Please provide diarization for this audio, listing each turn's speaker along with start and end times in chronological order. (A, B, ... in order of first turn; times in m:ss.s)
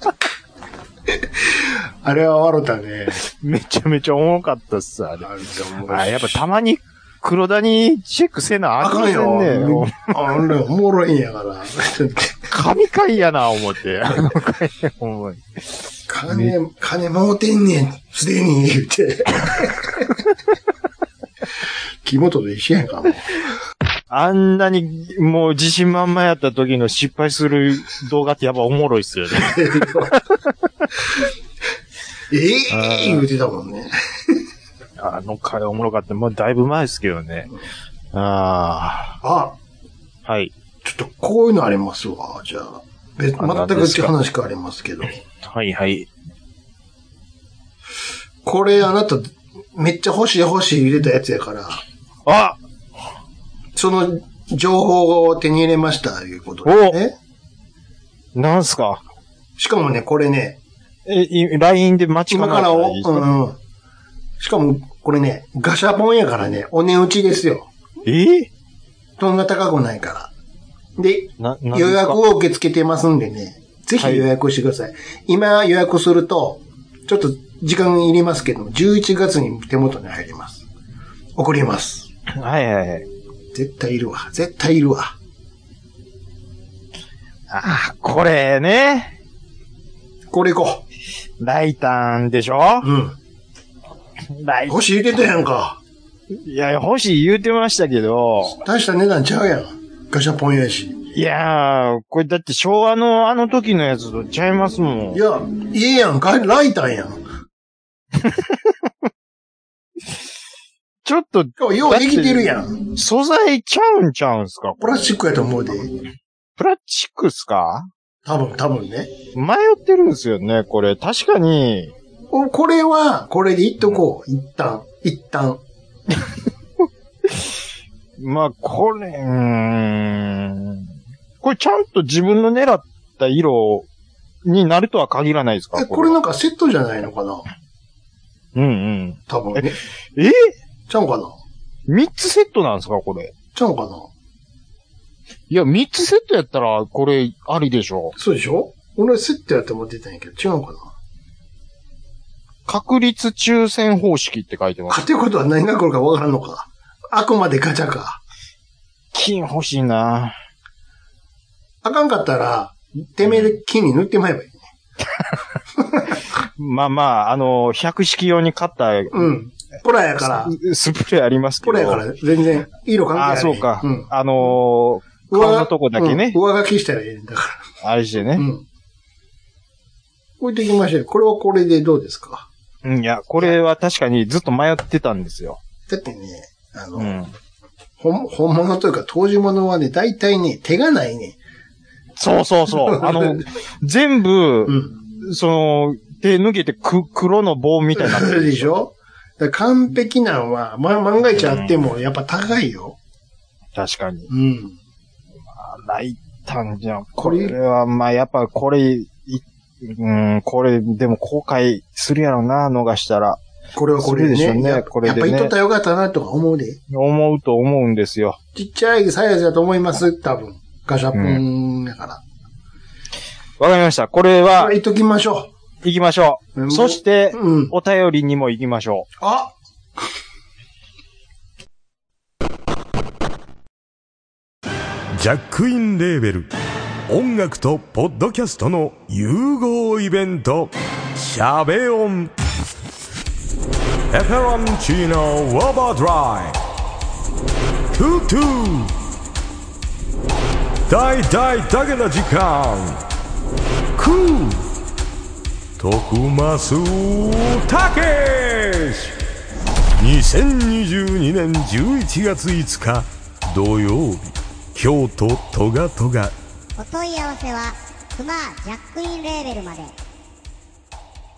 0:01.4-0:03.2 A
0:03.2-0:05.3 B
0:05.2-0:06.4 A
0:05.9-0:10.1 B
0:08.8-0:12.5 A
0:12.5-0:15.4 B
0:16.1-0:20.1 A
0:22.0-0:23.3 A
0:24.1-0:30.2 B
0:29.4-0:30.2 A
0:32.3-0:34.4 A
0:32.7-0:33.2 B
0:35.0-0:37.5 B
0:38.1-0:39.2 B
0:39.2-0:39.6 A
0:40.2-0:40.5 B
0:40.8-0:45.2 A
0:43.4-0:44.1 B
0:45.4-0:46.1 B
0:48.4-0:51.8 A
0:52.2-0:52.6 B
0:53.7-0:57.2 A
0:56.6-0:57.0 B
0:58.3-0:59.0 B
0:59.6-1:00.6 A
1:01.0-1:03.3 B
1:02.3-1:03.6 A
1:04.4-1:07.7 A
1:08.0-1:08.5 B
1:09.2-1:10.3 A
1:11.0-1:20.6 A
1:11.4-1:12.2 B
1:14.0-1:14.2 B
1:21.4-1:22.1 A
1:22.3-1:23.1 B
1:23.5-1:25.2 A
1:27.5-1:29.1 B
1:30.3-1:30.8 A
1:31.4-1:32.9 B
1:32.8-1:33.2 A
1:34.3-1:34.8 B
1:34.7-1:35.8 A
1:36.4-1:38.6 B
1:38.6-1:41.1 A
1:41.1-1:45.2 B
1:45.1-1:47.2 A
1:51.0-1:55.1 B
1:51.6-1:52.8 A
1:54.8-1:56.0 A
1:56.6-1:57.9 B
1:58.2-1:59.1 A
1:59.3-2:01.9 B
2:02.3-2:05.6 A
2:08.2-2:10.9 B
2:11.4-2:13.9 B
2:14.4-2:16.2 B
2:15.7-2:17.4 A
2:18.5-2:20.5 B
2:19.3-2:19.8 A
2:20.9-2:21.4 A
2:21.9-2:23.3 B
2:23.5-2:24.1 A
2:25.5-2:28.2 B
2:28.2-2:30.9 A
2:32.6-2:35.0 B
2:34.9-2:38.2 A
2:39.1-2:40.3 B
2:41.8-2:44.6 A
2:45.8-2:46.1 A
2:46.6-2:49.3 B
2:49.1-2:50.5 A
2:50.2-2:52.0 B
2:51.6-2:54.5 A
2:53.1-2:56.4 B
2:55.3-2:57.6 A
2:57.8-2:58.5 B
2:58.3-2:58.6 A
3:00.4-3:02.5 A
3:02.8-3:05.6 B
3:05.9-3:07.2 A
3:07.0-3:07.3 B
3:08.0-3:11.4 A
3:12.2-3:18.8 B
3:12.7-3:13.4 A
3:14.7-3:14.9 A
3:18.0-3:23.0 A
3:21.3-3:21.7 B
3:23.7-3:24.3 B
3:24.3-3:24.8 A
3:25.5-3:33.4 B
3:27.2-3:27.6 A
3:33.7-3:36.8 A
3:34.0-3:35.5 B
3:36.9-3:38.4 B
3:38.5-3:42.2 A
3:41.1-3:41.4 B
3:43.6-3:44.7 B
3:44.5-3:45.5 A
3:45.8-3:49.1 B
3:46.6-3:47.7 A
3:49.2-3:49.5 A
3:55.2-3:56.5 C
3:57.1-4:02.3 C
4:04.1-4:06.6 C
4:07.9-4:08.9 C
4:10.9-4:13.0 C
4:14.0-4:14.7 C
4:15.8-4:19.1 C
4:20.0-4:26.3 C
4:26.8-4:29.9 D